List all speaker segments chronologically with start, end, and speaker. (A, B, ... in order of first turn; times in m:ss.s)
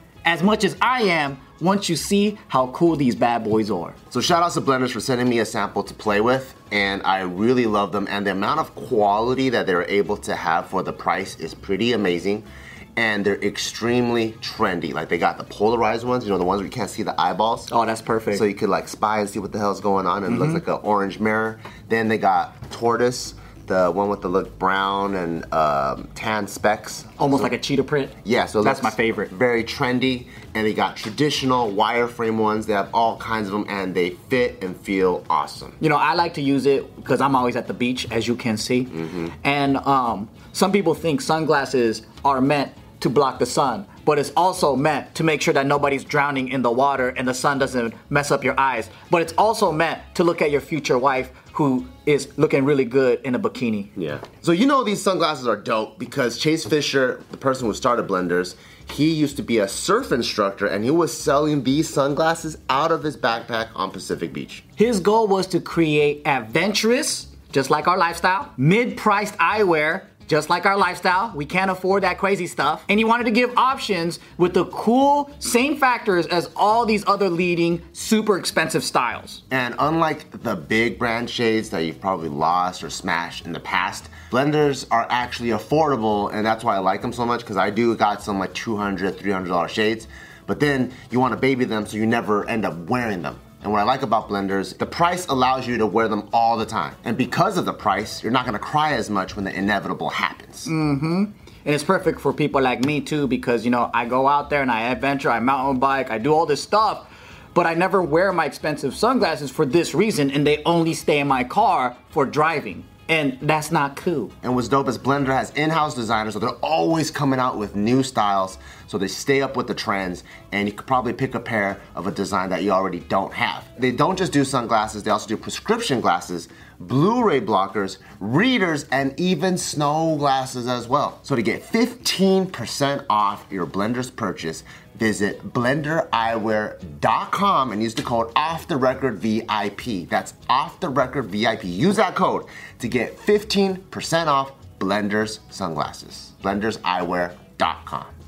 0:00.2-0:04.0 A
0:04.1-0:17.7 B
0:17.7-0:18.5 A
0:18.3-0:27.5 B
0:20.3-0:20.6 A
0:27.2-0:29.3 A
0:28.2-0:35.8 B
0:35.8-0:53.9 A
0:38.9-0:39.3 B
0:54.0-1:04.6 B
1:04.8-1:19.4 A
1:19.5-1:40.7 B
1:40.6-1:54.3 A
1:54.4-2:28.1 B